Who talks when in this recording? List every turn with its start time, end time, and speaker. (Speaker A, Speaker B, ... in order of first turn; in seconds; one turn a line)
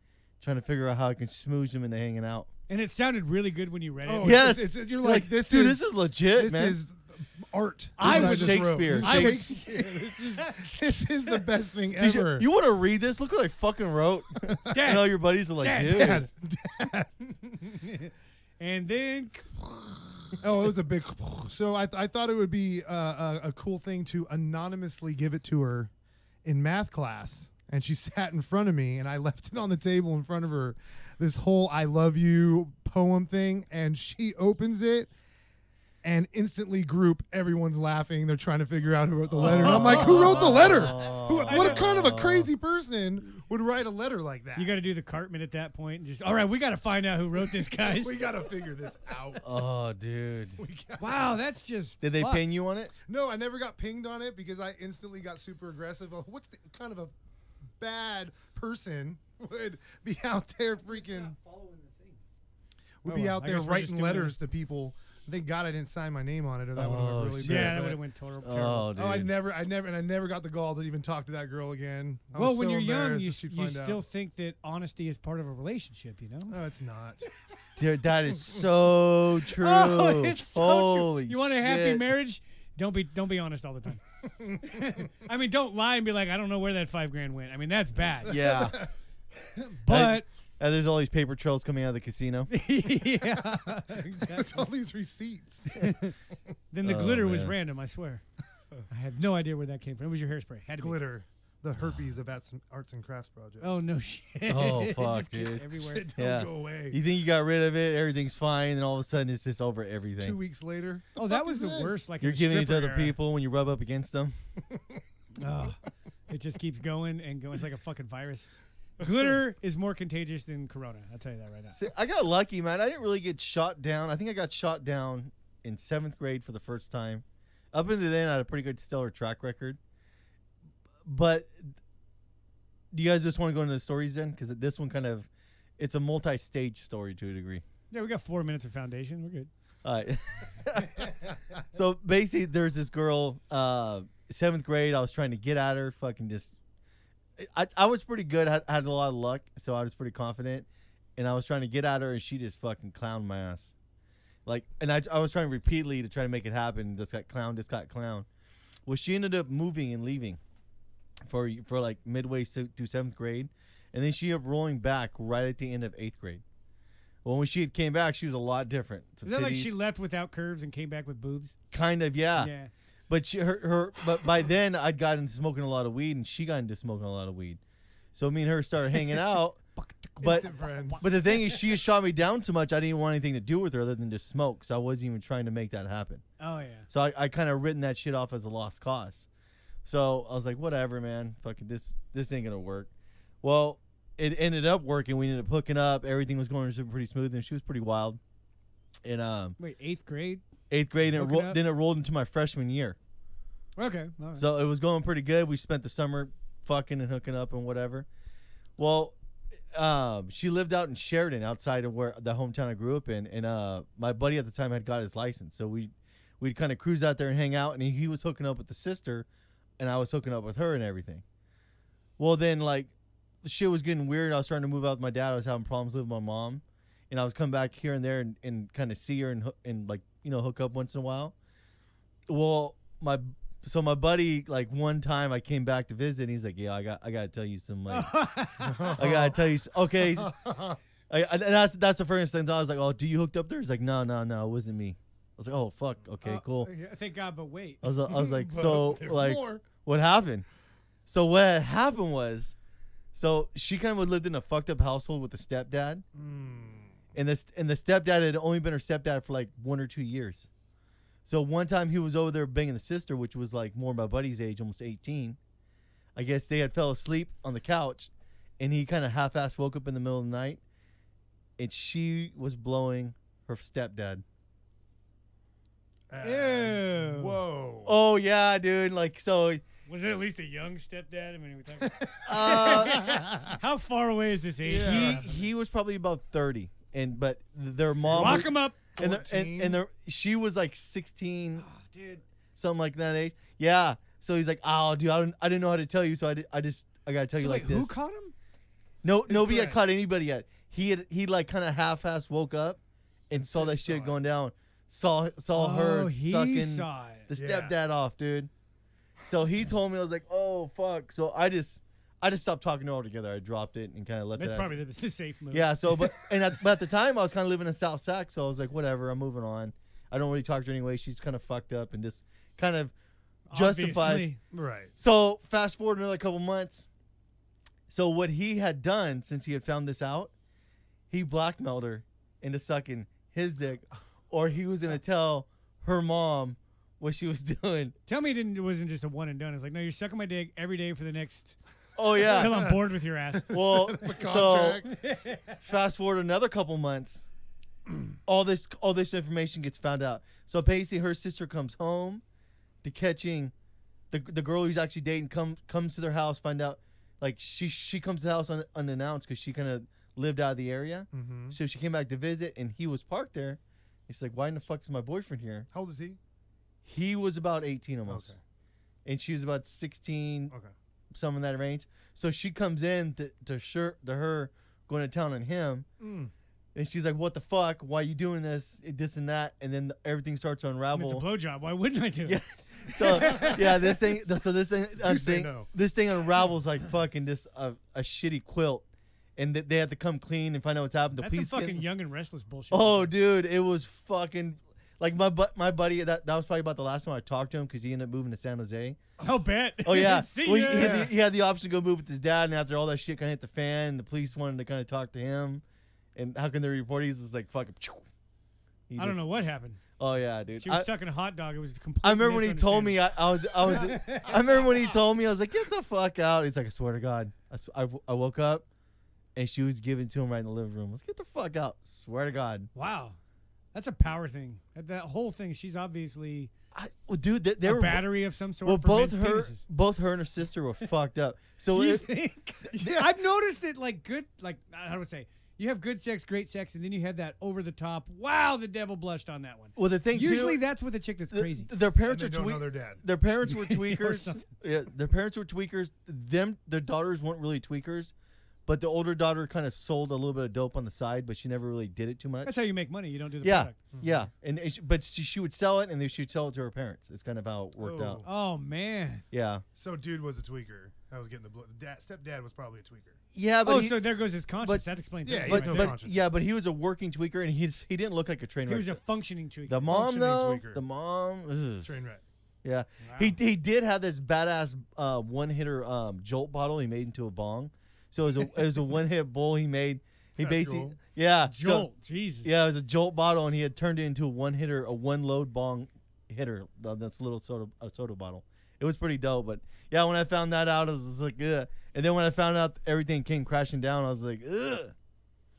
Speaker A: 0.4-2.5
Speaker B: 2.7-4.5
Speaker C: 4.0-12.5
Speaker A: 4.2-6.8
Speaker B: 8.0-10.7
Speaker A: 8.0-9.4
Speaker A: 12.0-16.2
Speaker B: 14.7-16.2
Speaker C: 15.8-17.4
Speaker B: 17.5-20.3
Speaker C: 20.4-25.9
Speaker C: 26.4-35.1
Speaker C: 36.0-44.7
Speaker B: 39.4-41.8
Speaker A: 39.4-42.5
Speaker B: 44.5-48.2
Speaker C: 47.8-49.7
Speaker A: 49.4-50.6
Speaker C: 50.6-51.4
Speaker B: 51.0-52.4
Speaker A: 52.0-52.9
Speaker C: 53.0-57.1
Speaker C: 57.8-61.3
Speaker B: 60.9-62.2
Speaker C: 63.0-68.0
Speaker B: 63.0-64.3
Speaker A: 66.7-67.9
Speaker B: 67.4-68.9
Speaker A: 68.4-69.3
Speaker C: 69.0-74.0
Speaker B: 72.3-76.6
Speaker C: 76.5-77.3
Speaker A: 77.8-82.0
Speaker B: 79.5-88.4
Speaker C: 84.2-84.8
Speaker A: 88.2-88.8
Speaker C: 88.3-88.9
Speaker B: 89.5-90.3
Speaker A: 89.9-92.5
Speaker B: 92.5-94.6
Speaker C: 94.2-95.9
Speaker B: 95.7-96.1
Speaker B: 96.7-98.2
Speaker A: 96.8-97.5
Speaker B: 98.9-101.0
Speaker C: 100.8-103.8
Speaker B: 103.6-106.1
Speaker A: 104.5-105.6
Speaker C: 105.8-107.0
Speaker A: 106.2-110.4
Speaker C: 110.2-112.0
Speaker B: 111.2-113.2
Speaker A: 112.2-114.3
Speaker B: 115.3-115.8
Speaker B: 116.3-118.5
Speaker B: 119.0-121.8
Speaker A: 121.7-129.8
Speaker A: 131.0-131.7
Speaker A: 132.9-137.6
Speaker B: 137.9-139.5
Speaker A: 139.8-146.5
Speaker A: 147.4-153.7
Speaker A: 154.4-158.3
Speaker A: 158.8-160.4
Speaker A: 161.2-166.4
Speaker A: 167.2-169.7
Speaker B: 169.2-171.5
Speaker A: 171.7-172.5
Speaker B: 172.3-172.7
Speaker A: 173.1-177.6
Speaker A: 178.1-179.6
Speaker B: 179.8-181.6
Speaker A: 180.2-180.5
Speaker C: 180.2-181.0
Speaker A: 181.0-186.2
Speaker B: 186.4-186.9
Speaker A: 186.9-189.3
Speaker A: 189.8-192.9
Speaker A: 193.4-198.2
Speaker A: 199.0-199.6
Speaker B: 199.6-200.4
Speaker A: 200.7-203.0
Speaker B: 201.1-201.6
Speaker B: 203.8-204.4
Speaker A: 204.4-208.1
Speaker A: 208.8-209.1
Speaker A: 209.7-219.3
Speaker A: 219.8-221.2
Speaker A: 222.2-231.3
Speaker A: 232.3-238.1
Speaker B: 237.9-239.0
Speaker C: 238.6-239.4
Speaker A: 238.9-240.3
Speaker C: 239.9-240.8
Speaker A: 241.1-246.7
Speaker B: 246.2-247.8
Speaker A: 247.8-250.4
Speaker C: 248.1-249.6
Speaker A: 251.1-252.5
Speaker A: 253.1-256.0
Speaker C: 256.1-256.9
Speaker A: 257.1-260.5
Speaker A: 261.2-265.4
Speaker A: 266.1-270.6
Speaker A: 271.6-274.2
Speaker C: 276.1-277.9
Speaker B: 276.2-277.4
Speaker A: 277.9-279.6
Speaker B: 279.9-285.3
Speaker C: 281.8-283.6
Speaker A: 282.2-283.2
Speaker A: 284.6-291.6
Speaker C: 284.6-285.2
Speaker C: 288.1-289.8
Speaker B: 288.1-288.8
Speaker B: 291.6-292.2
Speaker A: 292.6-297.9
Speaker B: 297.3-298.3
Speaker A: 299.0-308.5
Speaker C: 299.3-299.8
Speaker C: 303.4-304.2
Speaker B: 305.5-307.3
Speaker C: 307.3-307.8
Speaker A: 309.2-314.8
Speaker B: 314.4-315.7
Speaker A: 315.5-322.9
Speaker B: 323.5-324.4
Speaker A: 323.5-324.3
Speaker C: 324.5-324.9
Speaker A: 325.0-326.9
Speaker A: 327.9-330.3
Speaker A: 331.1-337.9
Speaker B: 338.1-341.6
Speaker A: 342.0-342.6
Speaker C: 342.2-342.8
Speaker B: 342.2-343.5
Speaker C: 343.4-344.9
Speaker A: 343.5-344.9
Speaker B: 344.9-345.6
Speaker A: 345.6-347.2
Speaker A: 348.2-352.2
Speaker A: 352.8-353.5
Speaker A: 354.1-365.7
Speaker C: 361.1-361.6
Speaker C: 365.7-366.2
Speaker A: 366.8-368.3
Speaker C: 368.1-368.4
Speaker A: 369.0-370.5
Speaker A: 371.1-375.9
Speaker C: 376.0-376.3
Speaker A: 376.7-381.2
Speaker B: 380.9-382.4
Speaker A: 382.2-388.8
Speaker B: 382.9-383.9
Speaker C: 385.0-385.7
Speaker A: 389.4-391.8
Speaker B: 391.2-393.1
Speaker A: 392.7-399.0
Speaker B: 399.2-401.0
Speaker A: 399.8-405.6
Speaker C: 400.7-401.1
Speaker A: 406.1-408.0
Speaker A: 408.9-409.2
Speaker B: 409.0-409.8
Speaker A: 410.0-410.9
Speaker B: 410.6-413.0
Speaker A: 412.0-418.6
Speaker B: 413.6-414.6
Speaker A: 419.4-422.7
Speaker B: 422.7-423.1
Speaker B: 423.7-426.5
Speaker A: 426.7-428.1
Speaker B: 427.6-429.6
Speaker A: 428.6-432.1
Speaker B: 431.7-441.7
Speaker C: 432.8-433.1
Speaker A: 439.8-440.6
Speaker A: 441.3-448.1
Speaker C: 442.0-443.0
Speaker B: 443.4-444.5
Speaker A: 448.7-452.5
Speaker B: 452.4-453.8
Speaker A: 453.4-458.2
Speaker C: 453.9-454.3
Speaker C: 457.8-458.3
Speaker B: 458.2-459.2
Speaker A: 459.3-459.6
Speaker C: 459.7-463.2
Speaker A: 463.3-464.0
Speaker B: 463.6-465.9
Speaker C: 465.2-466.3
Speaker A: 465.4-469.0
Speaker B: 468.7-469.9
Speaker A: 469.7-471.9
Speaker C: 469.9-470.8
Speaker C: 471.8-472.2
Speaker A: 472.6-481.9
Speaker B: 473.0-473.4
Speaker C: 480.4-481.0
Speaker B: 481.4-482.5
Speaker A: 482.4-494.9